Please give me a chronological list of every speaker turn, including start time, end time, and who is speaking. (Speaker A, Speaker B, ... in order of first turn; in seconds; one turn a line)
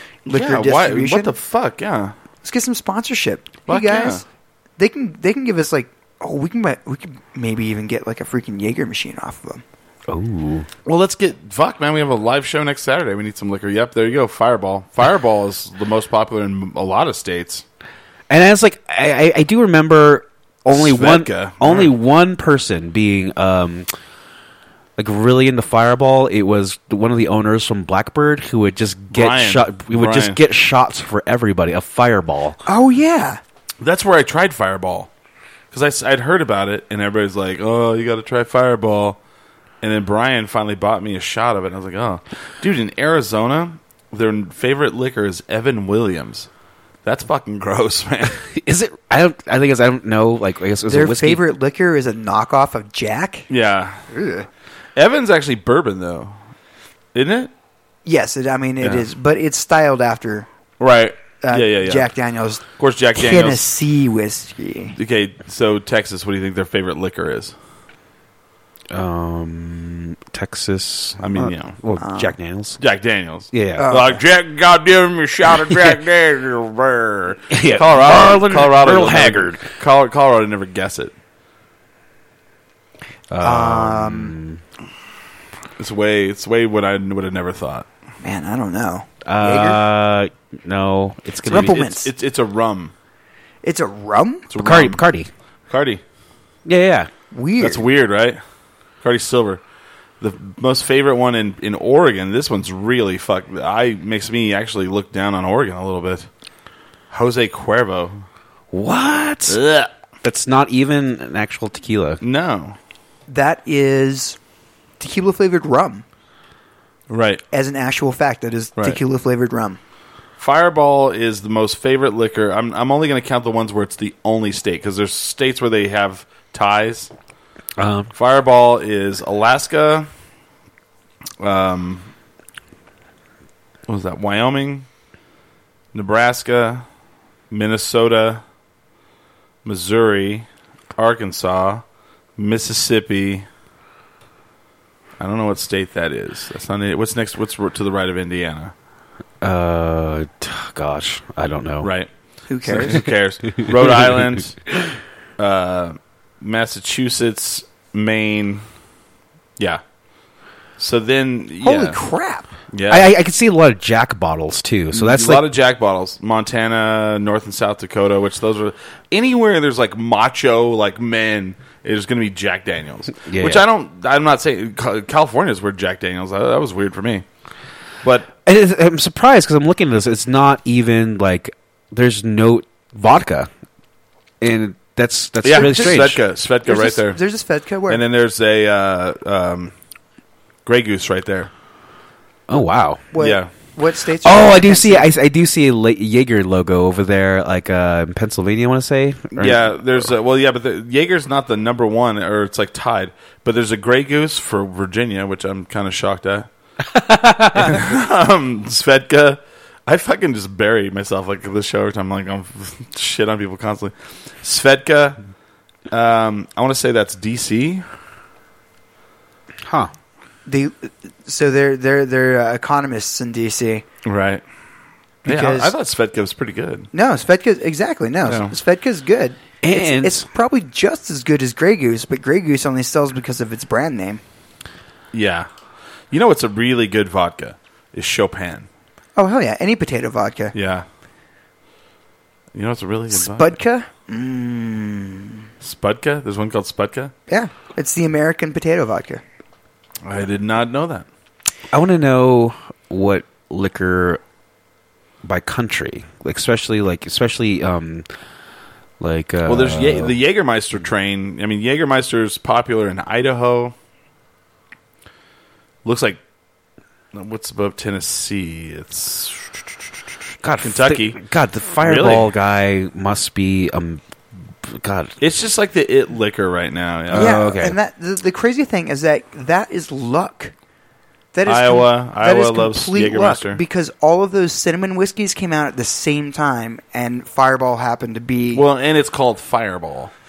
Speaker A: 0.3-1.3
Speaker B: 0.3-2.1
Speaker A: 2.4-4.2
Speaker B: 3.7-4.2
Speaker A: 4.8-9.6
Speaker C: 10.1-10.7
Speaker B: 10.8-17.6
Speaker C: 18.3-23.9
Speaker B: 20.7-21.9
Speaker C: 25.0-32.6
Speaker B: 29.1-30.4
Speaker A: 32.6-33.4
Speaker B: 33.8-35.1
Speaker B: 35.7-39.2
Speaker B: 39.8-46.5
Speaker B: 47.0-48.4
Speaker C: 48.4-51.4
Speaker A: 50.9-53.5
Speaker B: 53.5-54.0
Speaker A: 54.1-54.5
Speaker B: 55.0-56.4
Speaker B: 57.1-57.5
Speaker A: 58.0-60.5
Speaker B: 58.8-59.0
Speaker B: 60.8-62.0
Speaker A: 61.4-64.9
Speaker B: 62.8-63.6
Speaker B: 64.9-67.5
Speaker C: 68.9-72.8
Speaker B: 71.2-71.8
Speaker A: 72.0-72.3
Speaker B: 72.8-81.1
Speaker C: 73.5-73.9
Speaker A: 73.8-74.2
Speaker C: 77.5-79.7
Speaker C: 83.3-84.6
Speaker A: 83.4-84.3
Speaker B: 85.8-87.9
Speaker A: 88.2-89.8
Speaker C: 89.2-91.8
Speaker A: 91.5-92.1
Speaker B: 91.5-92.9
Speaker A: 93.6-94.5
Speaker B: 94.5-95.0
Speaker C: 94.6-95.3
Speaker B: 95.7-96.0
Speaker C: 96.7-97.1
Speaker A: 97.3-97.8
Speaker B: 97.6-98.4
Speaker B: 99.0-99.6
Speaker B: 100.2-106.3
Speaker B: 107.1-108.2
Speaker C: 108.7-109.6
Speaker B: 109.5-109.9
Speaker C: 110.2-112.2
Speaker B: 112.2-112.8
Speaker A: 113.3-114.4
Speaker A: 115.0-116.0
Speaker B: 117.1-117.4
Speaker A: 117.5-119.8
Speaker B: 120.4-127.1
Speaker C: 127.8-128.1
Speaker B: 128.1-130.1
Speaker B: 131.4-132.1
Speaker B: 133.9-134.9
Speaker B: 135.9-136.8
Speaker B: 137.5-138.4
Speaker B: 139.6-141.8
Speaker B: 142.4-143.4
Speaker B: 145.2-148.7
Speaker C: 149.4-151.9
Speaker B: 151.8-152.1
Speaker A: 152.5-153.1
Speaker B: 152.6-154.6
Speaker C: 153.5-154.2
Speaker B: 155.4-158.6
Speaker B: 160.8-162.0
Speaker A: 161.6-162.5
Speaker B: 162.7-163.1
Speaker C: 162.9-165.4
Speaker B: 164.9-177.2
Speaker C: 173.2-173.6
Speaker B: 178.0-178.3
Speaker C: 178.4-183.5
Speaker C: 184.4-186.2
Speaker B: 185.4-187.2
Speaker A: 185.6-185.9
Speaker A: 186.6-188.0
Speaker B: 187.9-189.7
Speaker B: 190.7-191.5
Speaker C: 192.5-193.1
Speaker A: 193.1-195.1
Speaker B: 193.2-193.5
Speaker C: 194.2-199.7
Speaker B: 199.3-206.5
Speaker C: 206.9-207.8
Speaker B: 207.5-215.2
Speaker B: 215.9-217.8
Speaker C: 219.6-219.9
Speaker A: 220.4-223.8
Speaker B: 224.0-224.4
Speaker A: 225.2-225.7
Speaker B: 225.2-226.9
Speaker A: 226.9-234.2
Speaker B: 228.2-228.5
Speaker C: 229.6-230.2
Speaker B: 235.1-235.5
Speaker B: 236.1-238.7
Speaker A: 239.2-240.5
Speaker B: 240.5-240.8
Speaker B: 242.5-243.5
Speaker A: 243.1-245.4
Speaker B: 245.6-247.1
Speaker A: 247.3-249.2
Speaker B: 250.0-251.1
Speaker C: 251.7-254.2
Speaker C: 255.2-258.1
Speaker C: 259.0-260.1
Speaker B: 259.4-263.7
Speaker B: 265.8-266.2
Speaker B: 267.1-269.8
Speaker C: 270.4-274.0
Speaker B: 270.6-271.2
Speaker B: 271.8-272.3
Speaker C: 274.6-275.1
Speaker B: 275.2-277.4
Speaker C: 277.1-277.8
Speaker A: 277.1-280.5
Speaker A: 281.3-288.6
Speaker B: 281.4-283.6
Speaker B: 288.5-290.1